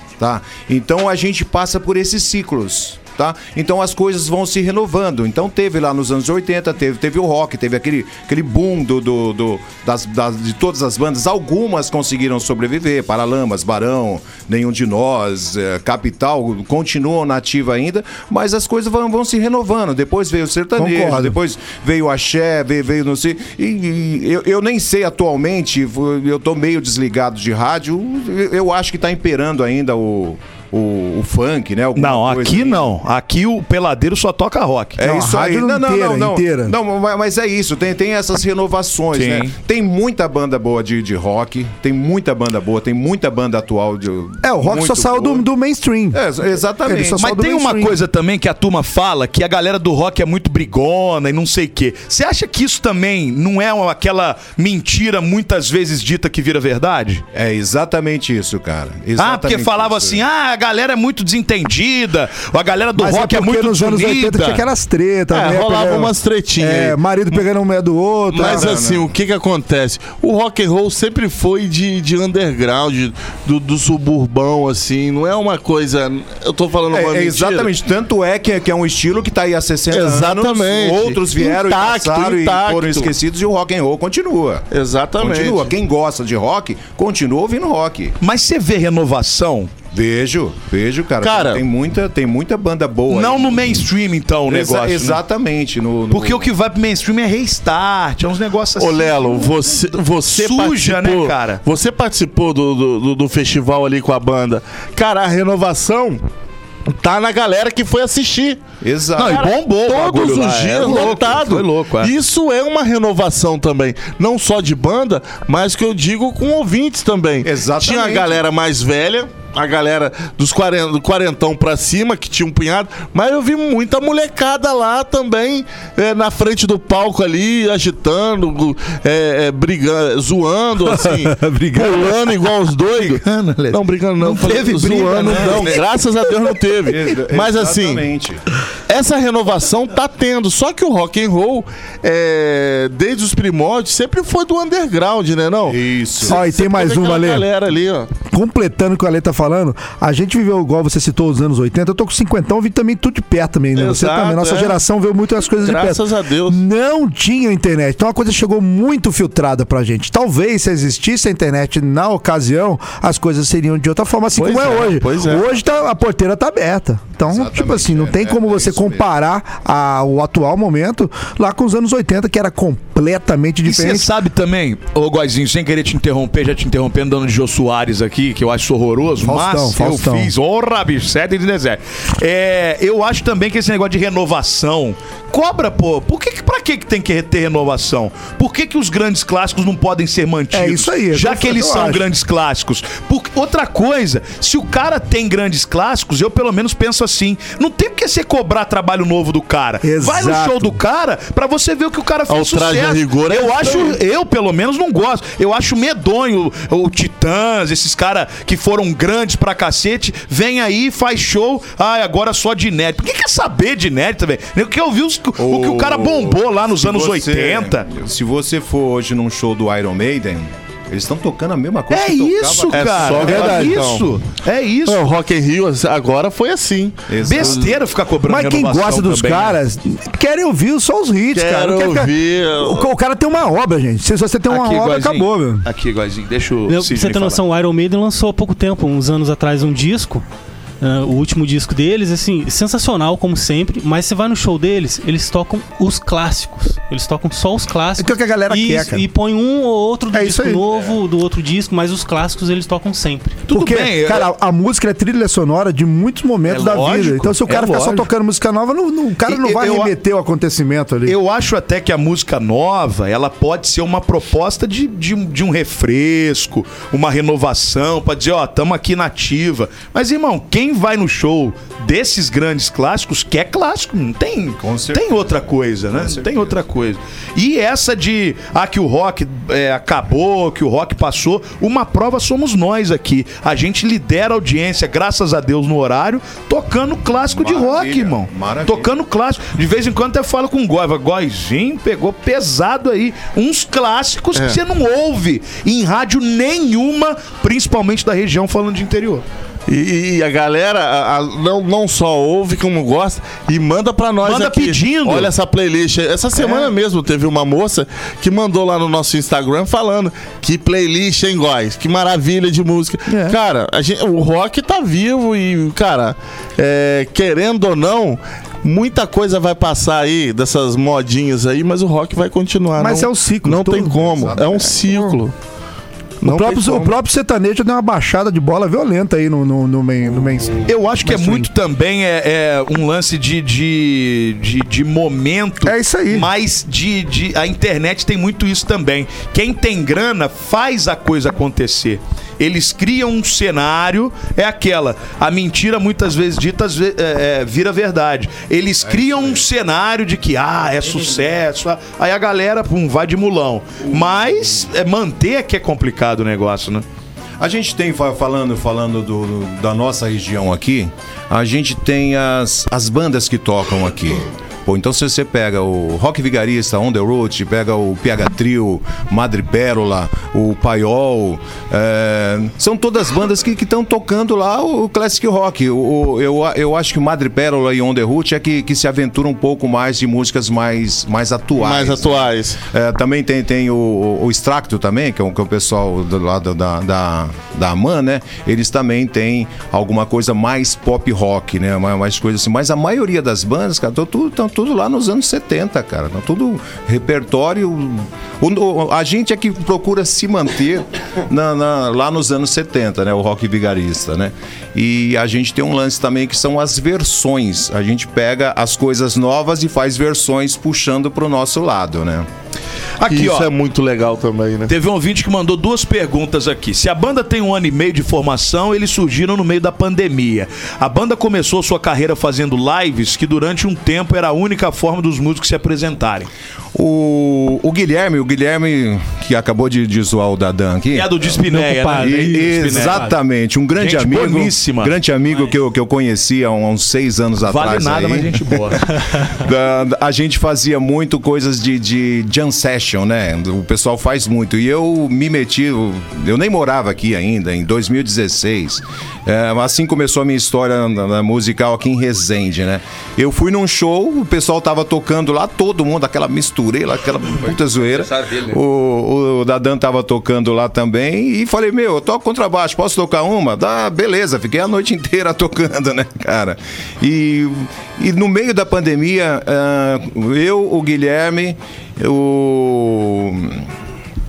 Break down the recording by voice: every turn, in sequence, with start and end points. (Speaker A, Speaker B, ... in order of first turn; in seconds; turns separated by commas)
Speaker A: 0.2-32.9, Speaker B: 20.8-21.4, Speaker C: 32.0-35.0, Speaker A: 35.0-45.5, Speaker B: 35.0-36.7, Speaker C: 39.1-39.5, Speaker B: 44.4-46.2, Speaker A: 46.1-47.2, Speaker B: 46.9-48.0, Speaker C: 47.2-57.2, Speaker A: 57.3-60.2, Speaker C: 59.2-64.6, Speaker B: 63.0-68.8, Speaker D: 65.3-67.4, Speaker D: 68.3-77.7, Speaker A: 68.4-69.1, Speaker A: 76.9-84.7, Speaker D: 79.9-83.1, Speaker D: 84.7-85.7, Speaker A: 85.2-88.2, Speaker C: 88.2-89.7, Speaker A: 89.9-93.9, Speaker D: 91.2-91.6, Speaker C: 93.1-95.2, Speaker A: 94.5-96.5, Speaker C: 96.1-101.6, Speaker D: 98.8-106.2, Speaker D: 106.9-108.6, Speaker A: 108.8-109.5, Speaker C: 109.2-112.1, Speaker D: 109.2-138.0, Speaker A: 117.4-118.4, Speaker B: 130.9-132.1, Speaker C: 133.0-135.8, Speaker A: 136.9-138.4, Speaker D: 138.9-148.1, Speaker A: 145.7-146.4, Speaker B: 146.3-147.5, Speaker B: 148.3-174.1, Speaker D: 153.8-154.8, Speaker D: 155.5-156.6, Speaker D: 164.3-165.5, Speaker A: 167.3-169.1, Speaker C: 173.6-217.9, Speaker B: 179.2-180.3, Speaker B: 190.5-192.1, Speaker B: 199.8-200.8, Speaker D: 202.3-204.0, Speaker A: 215.4-223.5, Speaker C: 221.9-225.1, Speaker D: 222.7-224.1, Speaker B: 223.3-223.8, Speaker D: 224.9-227.5, Speaker A: 227.1-227.7, Speaker C: 227.2-229.6, Speaker B: 228.2-235.7, Speaker D: 231.3-232.9, Speaker C: 234.5-237.4, Speaker E: 236.7-240.2, Speaker E: 240.8-253.5, Speaker B: 248.0-249.1, Speaker B: 250.1-250.6, Speaker C: 253.5-254.3, Speaker B: 253.5-261.2, Speaker C: 256.5-258.1, Speaker C: 259.3-259.9, Speaker C: 261.1-299.2, Speaker A: 274.6-276.7, Speaker A: 287.3-288.9, Speaker D: 299.7-325.3, Speaker C: 304.2-305.3, Speaker C: 306.4-306.7, Speaker B: 322.8-325.2, Speaker A: 324.1-324.7, Speaker D: 326.2-327.0, Speaker B: 326.2-331.5, Speaker C: 330.7-356.8, Speaker B: 335.6-336.3, Speaker A: 348.8-349.5, Speaker A: 357.4-382.2, Speaker D: 381.6-382.6, Speaker A: 382.7-412.3, Speaker C: 413.0-413.5, Speaker D: 413.1-414.7, Speaker C: 414.7-426.3, Speaker A: 426.8-431.3, Speaker C: 430.9-433.1, Speaker E: 431.5-433.0, Speaker A: 432.0-473.7, Speaker C: 433.8-434.9, Speaker C: 437.5-438.9